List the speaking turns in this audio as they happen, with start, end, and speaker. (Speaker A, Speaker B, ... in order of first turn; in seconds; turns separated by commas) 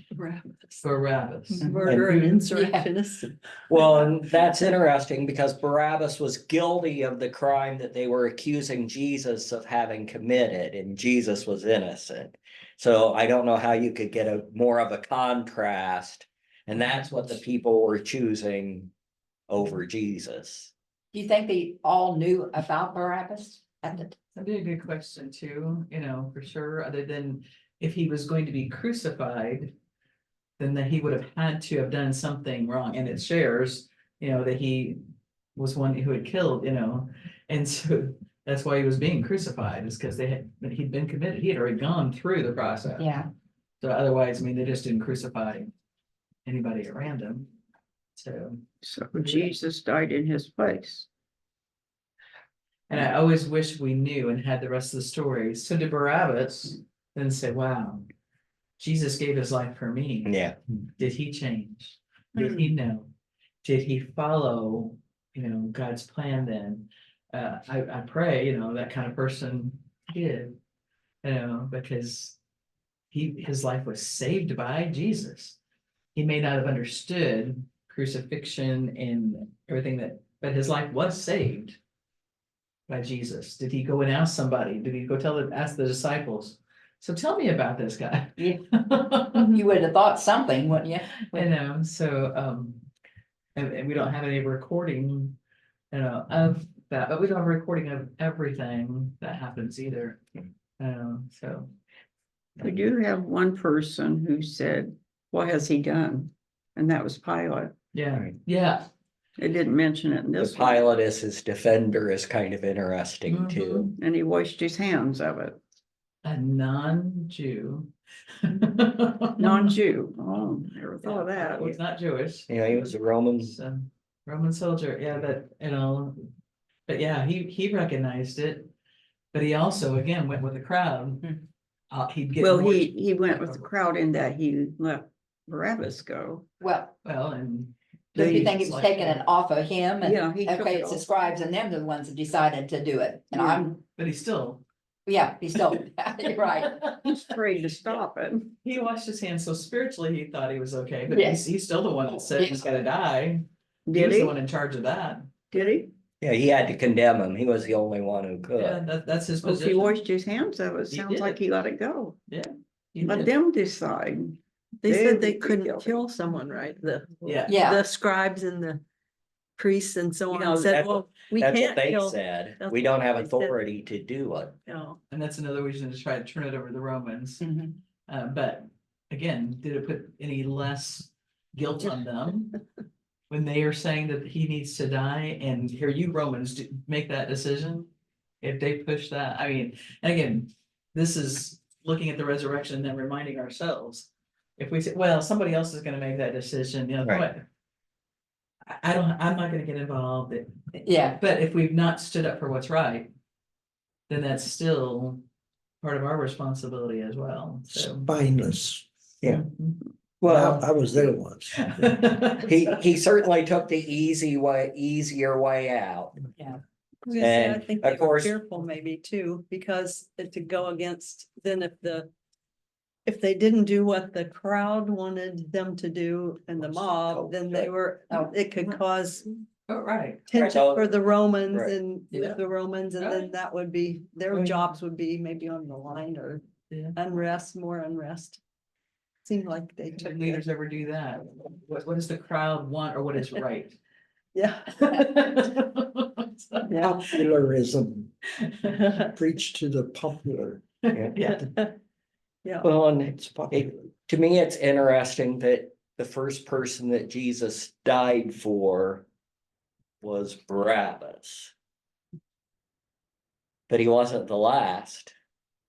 Speaker A: 0.1-0.8, Speaker B: 0.8-2.4, Speaker A: 1.6-3.3, Speaker C: 1.6-2.9, Speaker D: 3.7-18.9, Speaker D: 19.5-20.7, Speaker C: 21.1-24.1, Speaker B: 24.3-29.7, Speaker B: 30.6-35.0, Speaker B: 35.5-43.2, Speaker C: 43.0-43.3, Speaker B: 43.8-45.7, Speaker B: 46.5-47.5, Speaker B: 48.1-48.6, Speaker E: 48.8-51.1, Speaker B: 49.1-49.5, Speaker B: 52.9-58.0, Speaker B: 58.8-60.3, Speaker D: 60.2-60.6, Speaker B: 61.0-63.1, Speaker B: 63.6-70.5, Speaker B: 71.2-72.4, Speaker B: 73.1-75.6, Speaker B: 76.1-81.8, Speaker B: 82.9-89.5, Speaker C: 89.3-91.5, Speaker B: 91.3-92.8, Speaker B: 93.5-95.4, Speaker B: 95.9-100.2, Speaker B: 100.8-101.7, Speaker E: 102.6-107.8, Speaker B: 107.9-108.8, Speaker E: 109.4-110.8, Speaker D: 110.4-113.9, Speaker B: 113.3-113.9, Speaker E: 113.9-115.6, Speaker B: 116.2-117.9, Speaker B: 118.4-119.7, Speaker E: 119.4-121.8, Speaker B: 121.0-126.3, Speaker D: 122.5-123.5, Speaker B: 126.9-128.7, Speaker B: 129.3-131.4, Speaker B: 131.9-133.7, Speaker E: 132.4-136.4, Speaker C: 136.6-136.9, Speaker B: 137.0-139.2, Speaker E: 138.1-138.6, Speaker C: 138.2-143.8, Speaker E: 140.0-141.0, Speaker B: 143.9-144.6, Speaker C: 145.1-146.8, Speaker B: 146.6-147.1, Speaker E: 147.0-148.5, Speaker B: 148.6-155.8, Speaker C: 151.1-151.4, Speaker E: 153.9-154.3, Speaker E: 155.5-155.9, Speaker D: 156.2-158.8, Speaker B: 158.6-160.0, Speaker E: 159.4-162.2, Speaker B: 160.9-161.4, Speaker B: 162.3-163.3, Speaker E: 163.0-165.9, Speaker A: 164.8-168.8, Speaker B: 167.2-167.6, Speaker C: 167.5-167.8, Speaker A: 169.6-173.6, Speaker E: 170.3-170.7, Speaker D: 170.6-174.5, Speaker A: 174.7-175.0, Speaker B: 175.1-177.4, Speaker C: 177.4-177.7, Speaker B: 178.1-182.6, Speaker B: 183.3-187.9, Speaker B: 188.4-197.4, Speaker B: 198.7-200.5, Speaker C: 200.8-201.2, Speaker B: 201.0-203.1, Speaker B: 204.1-205.2, Speaker B: 205.8-208.1, Speaker F: 207.7-208.9, Speaker D: 209.2-209.4, Speaker B: 209.3-209.8, Speaker D: 210.2-210.7, Speaker F: 210.2-212.0, Speaker B: 211.6-212.7, Speaker D: 212.4-216.2, Speaker A: 217.1-222.1, Speaker D: 217.2-218.3, Speaker A: 223.1-229.3, Speaker B: 229.7-230.4, Speaker A: 230.3-236.4, Speaker D: 230.3-231.8, Speaker B: 233.0-233.3, Speaker B: 234.3-234.6, Speaker B: 236.7-237.0, Speaker A: 236.9-238.4, Speaker A: 239.2-240.4, Speaker B: 239.9-243.8, Speaker A: 244.3-245.2, Speaker B: 244.8-246.7, Speaker A: 246.7-247.1, Speaker F: 246.8-248.1, Speaker F: 249.1-250.6, Speaker B: 251.1-251.5, Speaker D: 252.6-259.1, Speaker D: 260.0-261.5, Speaker D: 263.7-265.1